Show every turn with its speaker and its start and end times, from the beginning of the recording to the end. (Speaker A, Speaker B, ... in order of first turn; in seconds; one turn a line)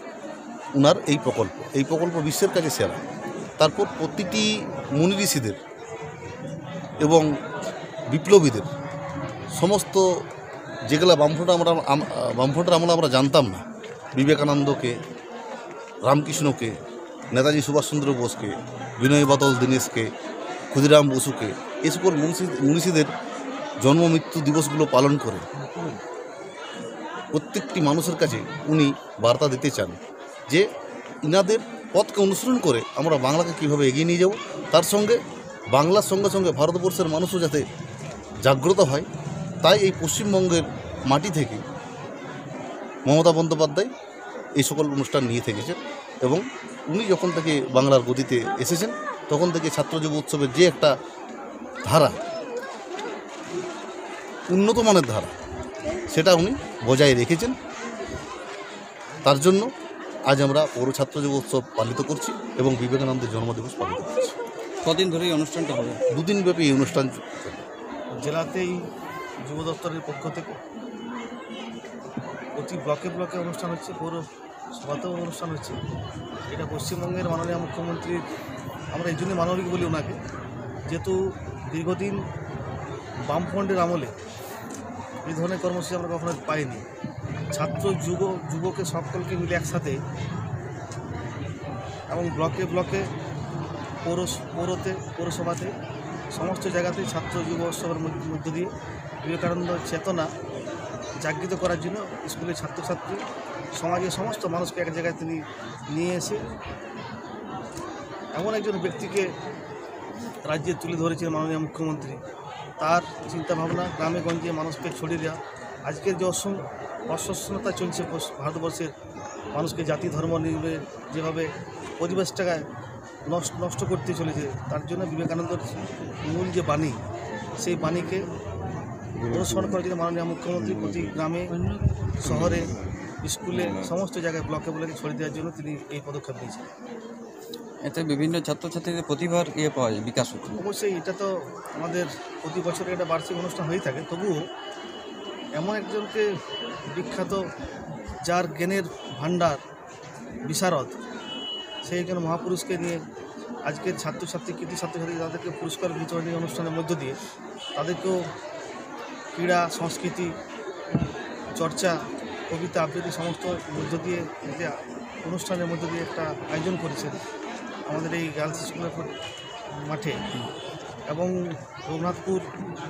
Speaker A: 0.8-3.0
Speaker A: 3.6-4.5
Speaker A: 5.0-5.6
Speaker A: 8.1-8.7
Speaker A: 9.6-10.0
Speaker A: 10.9-13.6
Speaker A: 14.1-14.9
Speaker A: 16.0-16.7
Speaker A: 17.3-20.1
Speaker A: 20.7-23.1
Speaker A: 23.8-25.4
Speaker A: 27.3-30.6
Speaker A: 31.2-35.1
Speaker A: 35.7-37.6
Speaker A: 38.4-39.0
Speaker A: 39.6-41.6
Speaker A: 43.0-43.9
Speaker A: 44.6-50.9
Speaker A: 51.9-52.1
Speaker A: 54.5-55.3
Speaker A: 56.1-57.5
Speaker A: 59.2-59.7
Speaker A: 60.3-64.3
Speaker B: 64.8-66.0
Speaker A: 66.1-67.6
Speaker C: 68.2-68.8
Speaker C: 69.5-70.5
Speaker C: 72.5-74.2
Speaker C: 74.8-75.8
Speaker C: 76.5-78.2
Speaker C: 78.9-80.1
Speaker C: 80.9-81.2
Speaker C: 81.7-82.2
Speaker C: 83.3-84.1
Speaker C: 85.2-86.8
Speaker C: 87.5-90.0
Speaker C: 92.1-93.0
Speaker C: 94.0-95.7
Speaker C: 96.3-98.7
Speaker C: 99.2-100.3
Speaker C: 101.2-103.2
Speaker C: 103.8-106.4
Speaker C: 108.3-109.2
Speaker C: 110.5-112.2
Speaker C: 112.8-116.5
Speaker C: 117.1-118.9
Speaker C: 119.5-121.4
Speaker C: 122.0-122.6
Speaker C: 123.2-125.6
Speaker C: 126.2-126.9
Speaker C: 127.6-128.2
Speaker C: 129.3-131.4
Speaker B: 131.6-132.6
Speaker C: 132.2-132.7
Speaker C: 133.2-136.7
Speaker B: 137.8-140.6
Speaker C: 140.5-144.4
Speaker C: 145.6-146.2
Speaker C: 146.9-147.4
Speaker C: 148.2-149.6
Speaker C: 150.4-150.9
Speaker C: 151.8-153.0
Speaker C: 153.7-157.1
Speaker C: 157.8-158.1
Speaker C: 159.3-160.3
Speaker C: 161.5-161.9
Speaker C: 162.5-164.7
Speaker C: 165.2-167.1
Speaker C: 167.9-169.1
Speaker C: 169.8-170.2
Speaker C: 171.1-172.4